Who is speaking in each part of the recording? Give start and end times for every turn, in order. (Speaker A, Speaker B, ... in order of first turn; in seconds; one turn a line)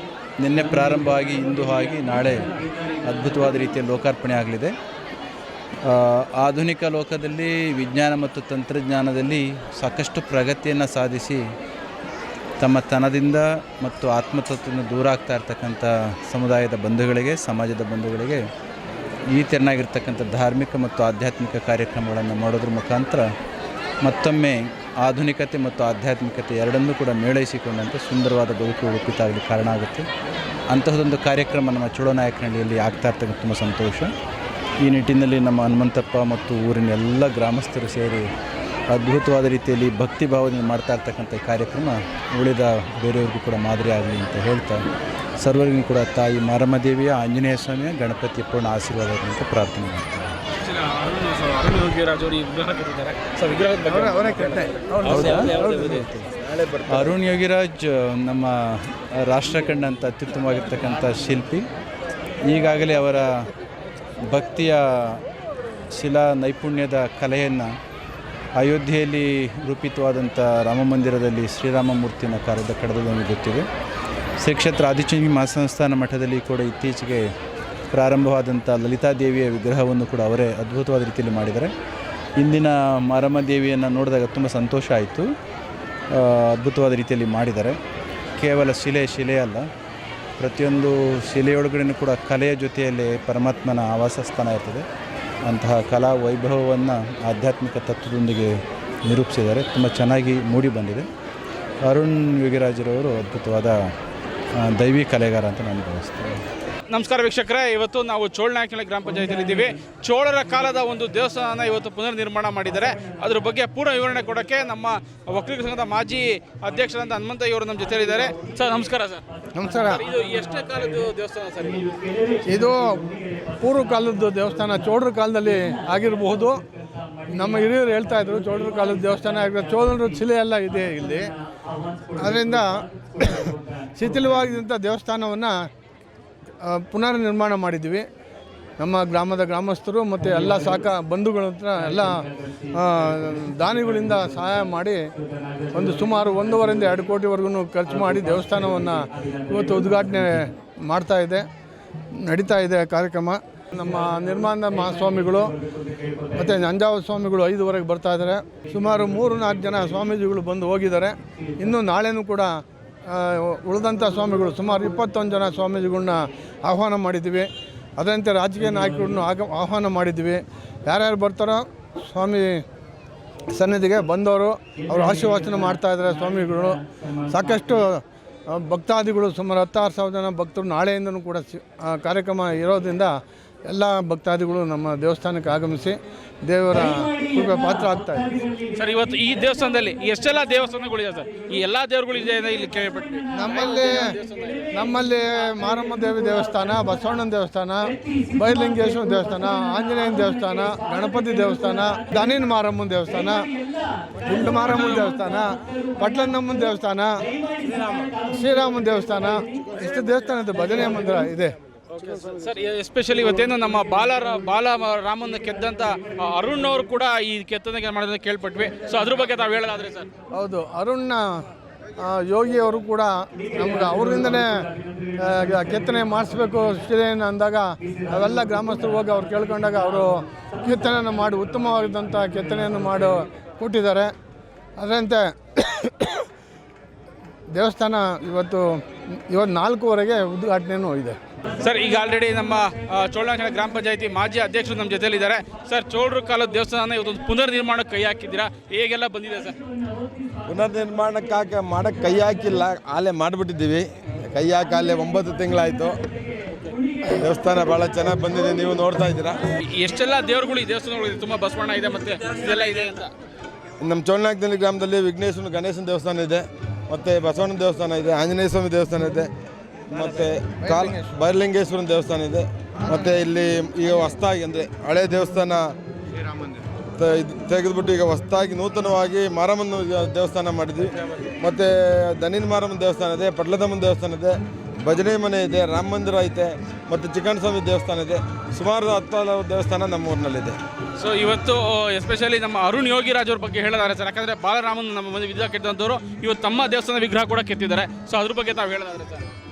Speaker A: 0.4-2.5
Speaker A: 3.0-4.7
Speaker A: 5.8-11.4
Speaker A: 12.6-18.4
Speaker A: 19.3-23.3
Speaker A: 24.0-30.1
Speaker A: 30.7-34.1
Speaker A: 34.8-38.2
Speaker A: 38.9-44.8
Speaker A: 45.4-50.4
Speaker B: 50.7-56.1
Speaker C: 53.9-56.2
Speaker A: 55.0-55.5
Speaker A: 56.9-61.6
Speaker A: 62.4-63.3
Speaker A: 64.3-65.2
Speaker A: 65.9-67.7
Speaker A: 68.6-73.7
Speaker A: 74.4-77.3
Speaker A: 77.9-81.7
Speaker A: 82.4-85.3
Speaker A: 86.1-87.8
Speaker A: 88.4-89.7
Speaker A: 90.4-94.8
Speaker A: 95.5-101.1
Speaker A: 101.8-103.8
Speaker A: 104.6-106.4
Speaker B: 106.9-119.2
Speaker C: 119.5-120.0
Speaker B: 119.8-121.9
Speaker C: 122.4-123.0
Speaker C: 123.6-126.6
Speaker C: 127.3-131.3
Speaker C: 132.2-135.5
Speaker C: 136.6-138.0
Speaker C: 138.8-145.0
Speaker C: 145.7-151.4
Speaker C: 152.1-155.5
Speaker C: 156.3-162.5
Speaker C: 163.1-172.5
Speaker C: 173.5-177.8
Speaker C: 178.5-183.1
Speaker C: 183.7-188.5
Speaker B: 188.7-194.7
Speaker C: 193.3-194.1
Speaker C: 194.7-203.5
Speaker C: 204.2-207.1
Speaker C: 208.2-211.5
Speaker B: 212.0-220.1
Speaker C: 220.3-221.2
Speaker C: 222.0-224.5
Speaker C: 225.2-230.1
Speaker C: 230.6-234.1
Speaker C: 234.8-236.2
Speaker C: 237.5-238.6
Speaker C: 239.3-241.2
Speaker B: 241.6-249.6
Speaker D: 250.5-255.9
Speaker D: 257.2-259.4
Speaker B: 259.7-263.1
Speaker D: 263.8-269.3
Speaker D: 269.9-275.7
Speaker C: 270.6-271.1
Speaker C: 276.2-276.6
Speaker D: 277.0-290.6
Speaker B: 291.0-299.2